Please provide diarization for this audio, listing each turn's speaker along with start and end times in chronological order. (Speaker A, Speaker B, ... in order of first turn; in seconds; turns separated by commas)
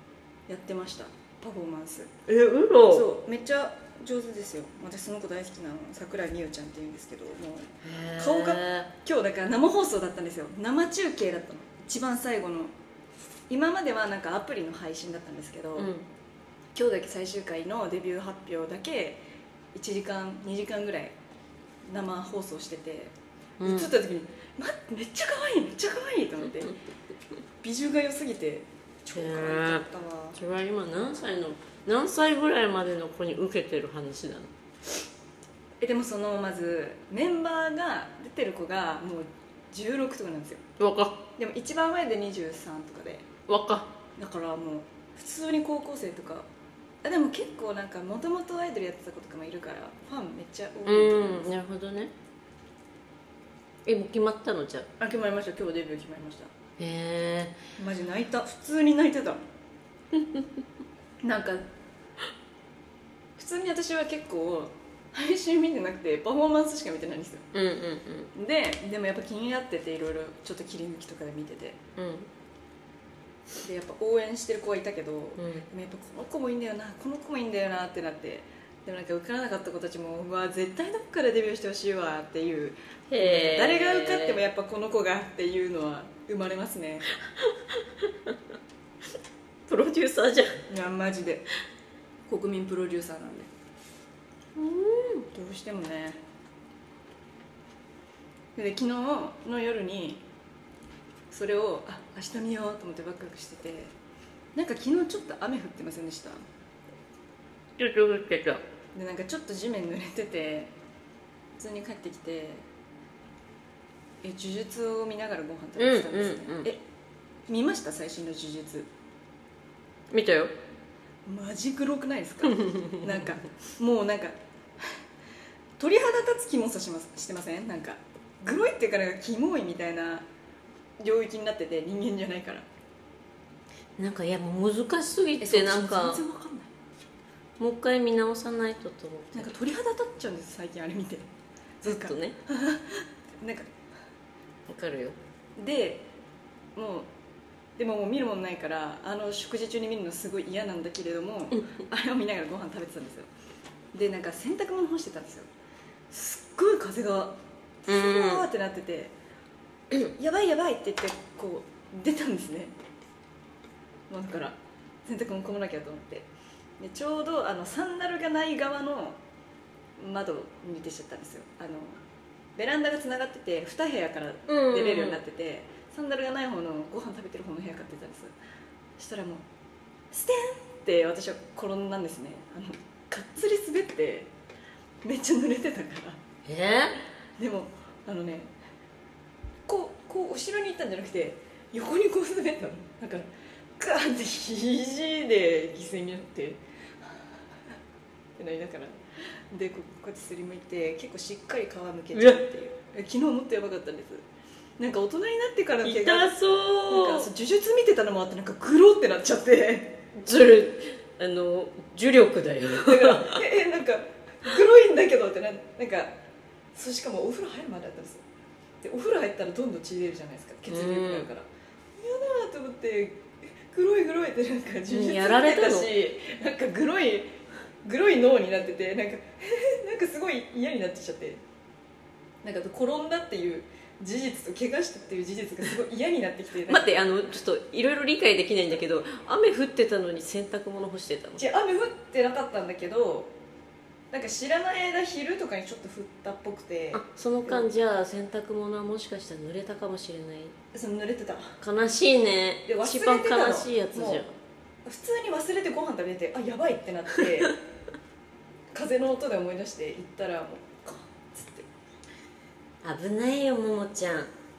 Speaker A: 0.5-2.1, Speaker B: 2.3-3.1, Speaker A: 2.9-12.7, Speaker B: 7.8-8.9, Speaker A: 13.5-15.9, Speaker B: 15.8-16.1, Speaker A: 16.7-19.2, Speaker A: 19.7-21.1, Speaker A: 21.9-26.7, Speaker B: 23.6-23.9, Speaker A: 27.6-30.4, Speaker B: 29.1-34.5, Speaker A: 35.8-40.6, Speaker B: 40.8-41.2, Speaker A: 41.4-43.2, Speaker B: 43.5-43.9, Speaker A: 44.2-46.5, Speaker A: 47.0-51.5, Speaker B: 50.9-52.1, Speaker B: 53.8-54.9, Speaker A: 55.0-56.5, Speaker B: 56.8-57.6, Speaker A: 57.8-59.4, Speaker A: 61.2-61.6, Speaker A: 63.4-67.4, Speaker B: 67.5-68.3, Speaker A: 68.3-71.8, Speaker B: 72.0-72.3, Speaker A: 73.6-87.1, Speaker B: 75.4-75.7, Speaker B: 83.1-84.4, Speaker B: 87.2-88.3, Speaker B: 89.7-90.6, Speaker A: 90.7-91.5, Speaker A: 92.3-93.5, Speaker B: 94.5-95.3, Speaker A: 95.3-96.2, Speaker A: 98.5-100.2, Speaker A: 101.3-103.9, Speaker A: 104.5-106.4, Speaker B: 107.8-108.6, Speaker A: 108.9-110.7, Speaker A: 111.6-112.7, Speaker A: 114.2-116.8, Speaker B: 115.8-116.7, Speaker A: 117.5-118.9, Speaker B: 120.1-120.5, Speaker A: 121.2-124.3, Speaker B: 122.6-123.1, Speaker A: 125.8-130.2, Speaker A: 131.0-132.7, Speaker B: 134.0-136.2, Speaker A: 135.4-136.7, Speaker B: 137.6-139.5, Speaker A: 139.3-141.3, Speaker A: 141.8-143.7, Speaker B: 141.8-142.4, Speaker B: 144.7-145.2, Speaker A: 145.6-146.0, Speaker A: 146.8-147.1, Speaker A: 147.8-153.3, Speaker A: 153.9-155.5, Speaker A: 156.1-159.1, Speaker B: 157.9-158.5, Speaker A: 160.1-162.7, Speaker A: 164.1-166.3, Speaker A: 166.8-169.2, Speaker A: 170.0-172.0, Speaker A: 172.6-178.3, Speaker B: 174.5-175.2, Speaker A: 179.0-179.4, Speaker A: 180.1-184.3, Speaker A: 185.0-186.2, Speaker B: 186.4-187.0, Speaker A: 187.4-188.5, Speaker A: 189.7-196.6, Speaker A: 198.4-204.2, Speaker B: 202.1-202.4, Speaker A: 204.8-210.0, Speaker B: 205.8-207.3, Speaker B: 210.2-213.4, Speaker A: 212.8-216.1, Speaker A: 216.7-218.2, Speaker A: 218.8-227.3, Speaker B: 220.7-221.3, Speaker B: 224.9-225.9, Speaker A: 227.8-231.4, Speaker A: 232.4-236.9, Speaker B: 236.7-241.4, Speaker A: 241.4-243.3, Speaker A: 244.1-247.7, Speaker B: 246.9-250.5, Speaker A: 250.7-251.6, Speaker B: 251.6-254.3, Speaker A: 252.6-254.2, Speaker A: 254.8-257.6, Speaker A: 258.7-261.7, Speaker B: 262.8-264.3